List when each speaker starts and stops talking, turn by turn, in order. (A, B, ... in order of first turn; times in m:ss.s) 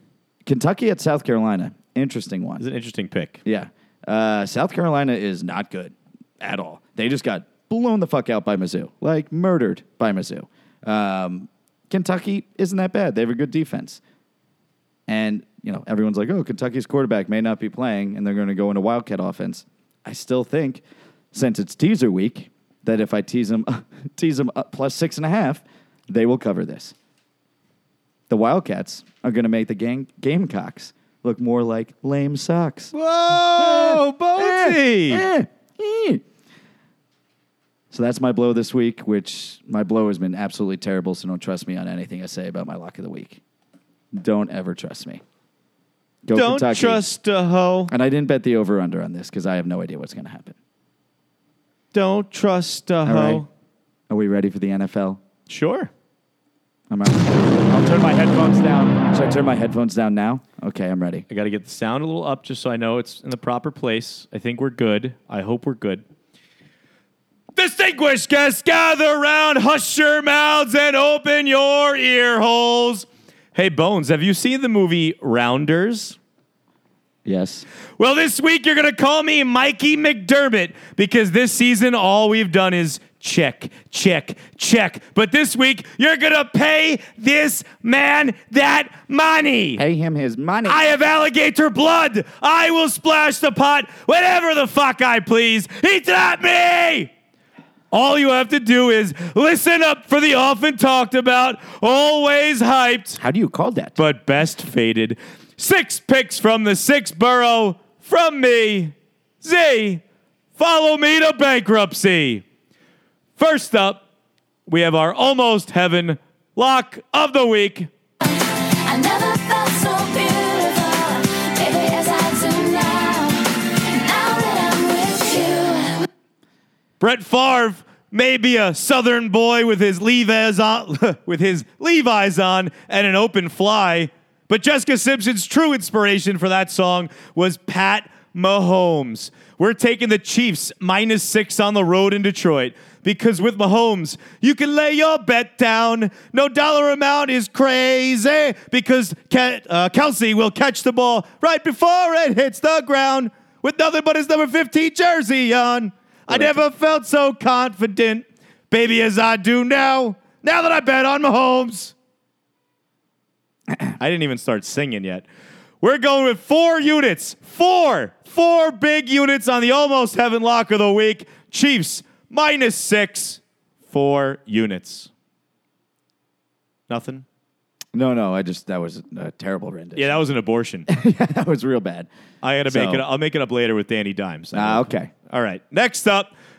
0:00.4-0:02.6 A
0:02.6-0:03.4 B
0:03.4-0:14.0 A
0:15.1-0:26.9 A
0:28.3-0:32.9 A
0:32.9-0:35.2 B
0:33.5-0:36.2 A
0:37.9-0:43.4 A
0:44.1-0:45.2 A
0:46.2-0:47.0 A
0:46.3-0:47.9 B
0:47.9-0:50.5 A
0:51.9-0:53.5 B
0:53.0-0:53.4 A
0:54.1-0:55.2 A
0:55.5-0:55.9 B
0:56.9-1:01.2 A
1:01.3-1:06.0 B
1:07.5-1:16.2 B
1:17.2-1:17.6 A
1:18.0-1:29.8 B
1:29.8-1:30.8 A
1:30.6-1:37.1 B
1:37.9-1:43.2 B
1:43.2-1:44.0 A
1:44.0-1:50.0 B
1:50.6-1:52.4 B
1:53.4-1:54.0 B
1:54.7-1:57.9 B
1:58.2-2:06.0 C
2:07.0-2:41.9 B
2:36.3-2:36.6 A
2:44.0-2:45.3 B
2:45.8-2:55.1 B
2:56.9-2:57.2 B
2:57.9-3:00.2 A
3:00.0-3:00.9 B
3:00.9-3:02.1 A
3:02.4-3:06.3 B
3:02.6-3:03.0 A
3:04.5-3:05.1 A